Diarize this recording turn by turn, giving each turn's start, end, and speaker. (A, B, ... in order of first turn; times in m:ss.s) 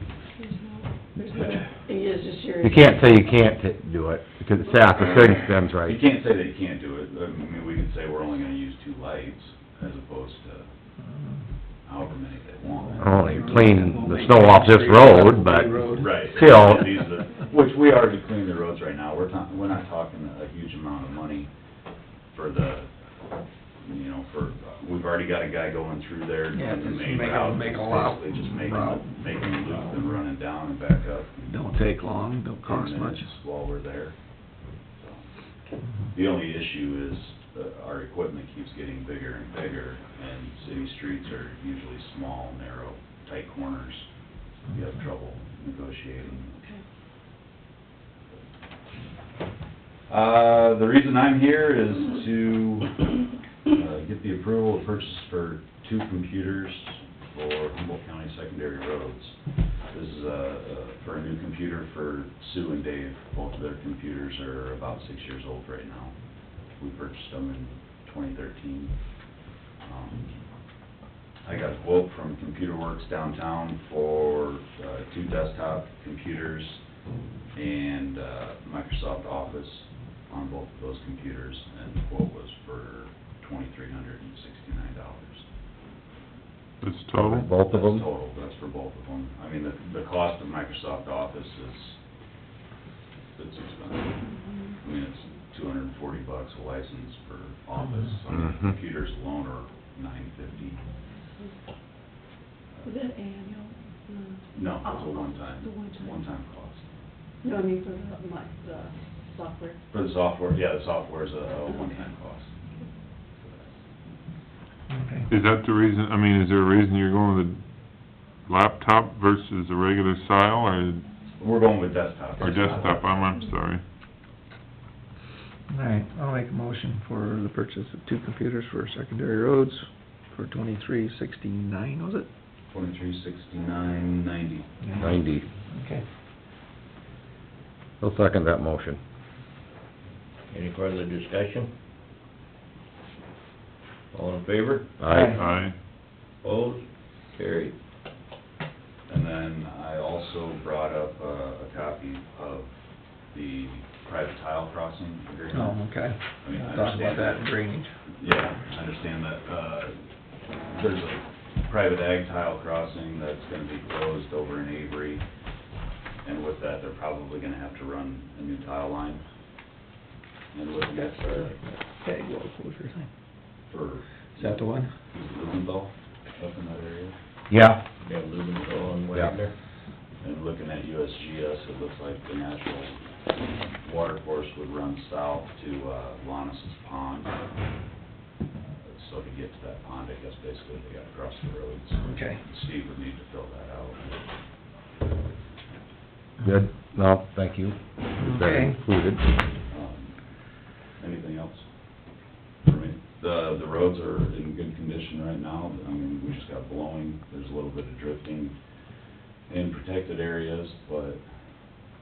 0:00.4-0:03.2 A
0:02.6-0:06.0 B
0:05.0-0:10.7 C
0:11.9-0:13.9 C
0:13.0-0:17.1 B
0:13.1-0:16.1 D
0:15.9-0:21.5 C
0:22.3-0:22.9 C
0:23.8-0:31.8 C
0:26.5-0:29.9 D
0:31.5-0:33.3 D
0:32.6-0:34.1 C
0:35.0-0:35.3 C
0:36.1-0:44.1 C
0:44.7-0:46.6 C
0:50.1-0:59.4 C
0:59.9-1:06.2 C
1:06.8-1:08.9 C
1:09.8-1:10.4 C
1:11.4-1:16.8 C
1:17.5-1:25.4 C
1:26.8-1:27.5 E
1:27.1-1:28.1 B
1:27.7-1:32.0 C
1:33.4-1:40.8 C
1:34.3-1:34.8 A
1:38.3-1:38.6 B
1:42.8-1:46.2 A
1:44.5-1:46.9 C
1:47.4-1:49.8 A
1:49.9-1:52.5 C
1:53.4-1:53.7 C
1:54.9-1:55.3 D
1:55.3-1:57.6 E
1:58.5-2:01.0 E
2:01.4-2:03.2 C
2:02.4-2:03.8 E
2:05.7-2:12.3 D
2:12.7-2:15.2 C
2:15.0-2:15.5 B
2:15.7-2:16.0 D
2:18.0-2:19.0 B
2:20.5-2:21.7 F
2:24.1-2:25.0 F
2:25.0-2:25.4 B
2:25.1-2:25.8 E
2:25.1-2:25.4 D
2:26.4-2:26.8 F
2:27.3-2:27.8 F
2:29.1-2:32.8 C
2:33.3-2:35.8 C
2:35.5-2:37.9 D
2:36.4-2:37.5 C
2:38.2-2:40.0 C
2:40.7-2:45.2 C
2:46.2-2:49.2 C
2:50.5-2:51.6 C
2:50.9-2:53.1 D
2:53.7-2:57.2 C
2:54.5-2:54.9 D
2:57.5-2:57.8 B
2:58.0-2:59.5 F
3:00.2-3:03.0 C
3:03.8-3:07.8 C
3:08.8-3:14.2 C
3:12.0-3:12.4 D
3:16.4-3:19.2 B
3:18.2-3:18.8 D
3:19.7-3:20.2 C
3:21.0-3:21.7 C
3:22.6-3:28.6 C
3:29.5-3:31.2 C